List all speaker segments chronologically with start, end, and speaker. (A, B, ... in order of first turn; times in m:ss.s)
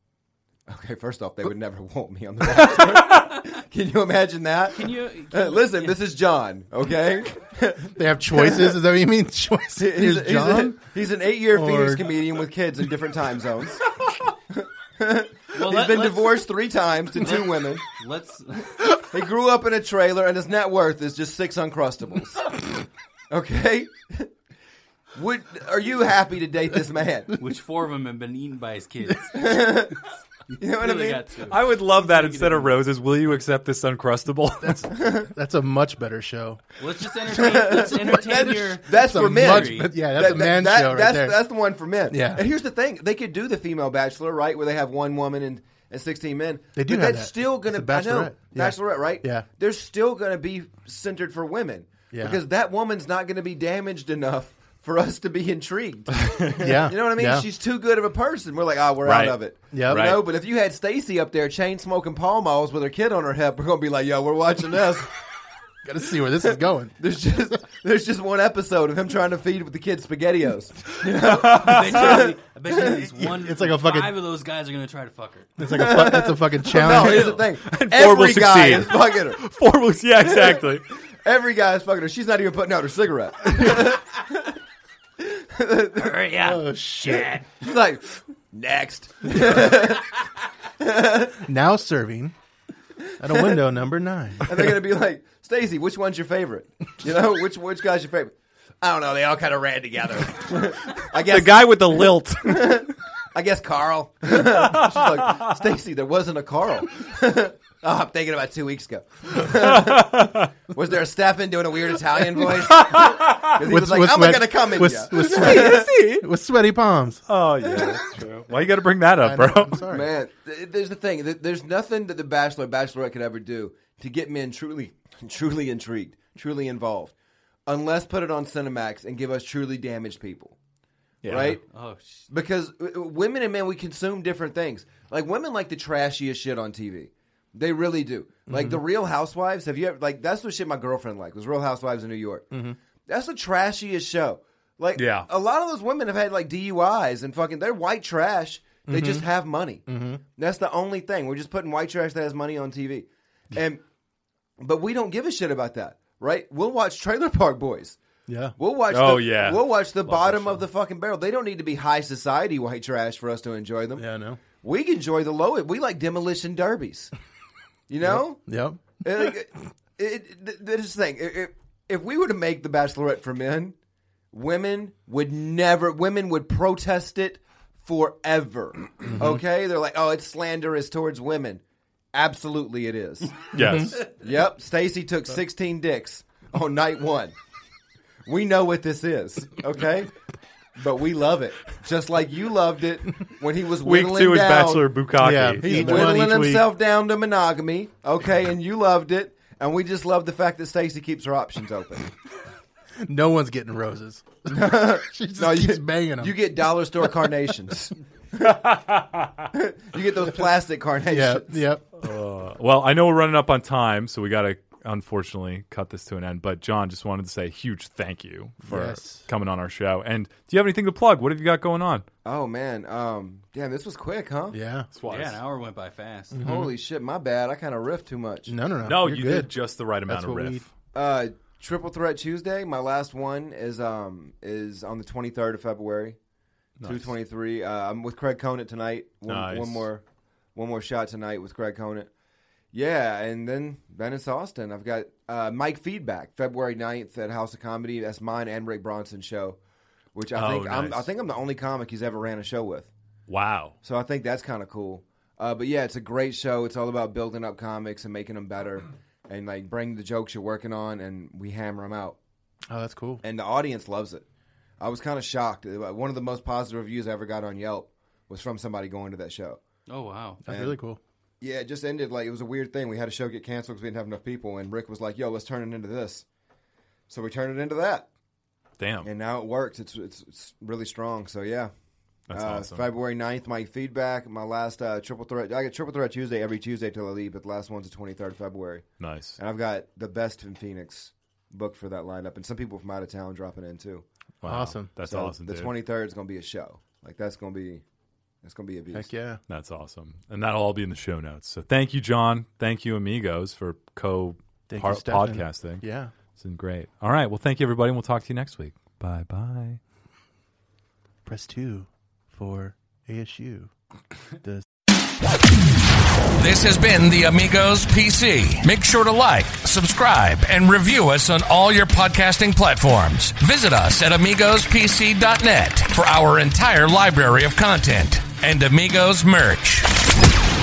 0:00.7-0:08.8 A
0:02.5-0:03.3 B
0:04.7-0:06.0 C
0:07.9-0:10.8 D
0:09.8-0:13.8 A
0:11.5-0:12.0 D
0:14.5-0:17.8 A
0:15.5-0:16.5 C
0:17.1-0:18.9 C
0:19.0-0:22.6 A
0:23.3-0:24.3 A
0:25.2-0:27.3 A
0:27.4-0:29.9 C
0:29.3-0:31.2 A
0:30.5-0:32.8 C
0:31.5-0:34.9 B
0:34.6-0:36.6 D
0:34.9-0:35.3 A
0:36.8-0:40.0 C
0:37.3-1:05.1 A
0:38.9-0:41.4 D
0:42.1-0:42.4 D
0:46.8-0:49.5 D
0:52.1-0:52.4 D
0:56.2-0:56.7 B
0:56.6-0:57.4 D
0:59.0-1:00.2 B
0:59.7-1:00.2 D
1:05.8-1:07.0 D
1:07.0-1:13.0 A
1:11.0-1:15.6 C
1:11.0-1:12.3 B
1:12.8-1:14.2 D
1:15.6-1:17.4 D
1:15.6-1:19.4 A
1:16.8-1:17.4 C
1:16.9-1:20.9 B
1:20.2-1:24.6 A
1:23.5-1:23.9 B
1:25.2-1:26.3 A
1:26.0-1:27.5 C
1:26.4-1:27.4 D
1:27.6-1:30.1 A
1:30.8-1:31.5 A
1:31.4-1:32.4 D
1:33.0-1:33.6 A
1:33.2-1:34.6 D
1:34.4-1:55.9 A
1:41.1-1:42.9 B
1:44.4-1:45.5 B
1:49.6-1:50.5 B
1:52.5-1:53.6 B
1:53.6-1:57.2 D
1:55.1-1:56.3 B
1:57.3-1:59.8 B
1:57.6-1:58.0 A
1:59.2-2:00.1 D
1:59.9-2:07.1 A
2:07.7-2:10.6 A
2:11.2-2:11.6 B
2:11.2-2:11.6 A
2:11.7-2:12.3 C
2:12.3-2:22.5 A
2:18.5-2:18.8 D
2:22.5-2:22.8 D
2:23.1-2:29.8 A
2:25.0-2:25.3 B
2:28.9-2:29.3 D
2:29.9-2:30.2 D
2:30.4-2:33.8 A
2:34.6-2:38.0 A
2:38.3-2:38.6 D
2:38.6-2:44.0 A
2:38.9-2:40.6 B
2:44.0-2:44.4 D
2:44.6-2:47.1 A
2:47.9-2:48.4 A
2:48.0-2:48.8 D
2:49.0-2:53.8 A
2:54.3-3:01.6 A
2:59.1-2:59.4 D
3:02.1-3:07.3 A
3:03.5-3:04.1 B
3:03.6-3:04.0 D
3:08.2-3:10.1 A
3:10.8-3:14.9 A
3:13.8-3:16.3 B
3:15.2-3:16.7 D
3:15.6-3:22.1 A
3:23.0-3:26.4 D
3:24.5-3:28.6 A
3:28.4-3:29.5 B
3:29.5-3:31.7 A
3:31.1-3:31.8 D
3:32.0-3:42.1 B
3:38.7-3:39.3 D
3:42.2-3:44.6 A
3:44.5-3:44.9 D
3:44.9-3:45.4 B
3:45.1-3:46.4 C
3:46.3-3:46.7 D
3:46.4-3:48.5 A
3:48.5-3:49.5 D
3:48.8-3:50.7 B
3:50.1-3:50.6 D
3:50.9-3:56.2 A
3:56.8-3:57.1 B
3:56.8-4:00.0 A
3:59.3-3:59.8 B
4:00.6-4:02.1 A
4:02.7-4:09.6 A
4:10.2-4:12.9 A
4:10.3-4:11.1 B
4:13.3-4:13.7 B
4:13.8-4:22.2 A
4:22.7-4:23.2 D
4:23.2-4:24.2 A
4:24.8-4:29.6 A
4:29.9-4:30.4 C
4:30.4-4:31.0 D
4:30.5-4:30.8 A
4:31.4-4:36.2 A
4:37.1-4:38.1 A
4:38.8-4:39.1 B
4:39.0-4:41.7 A
4:42.3-4:42.9 B
4:42.3-4:54.0 A
4:49.0-4:49.4 B
4:54.4-4:55.7 B
4:54.4-4:54.9 D
4:55.0-4:57.8 A
4:58.4-4:59.1 A
4:58.9-4:59.4 D
4:59.5-5:05.8 B
5:04.7-5:06.1 D
5:06.4-5:09.8 B
5:11.3-5:13.7 D
5:16.4-5:30.0 E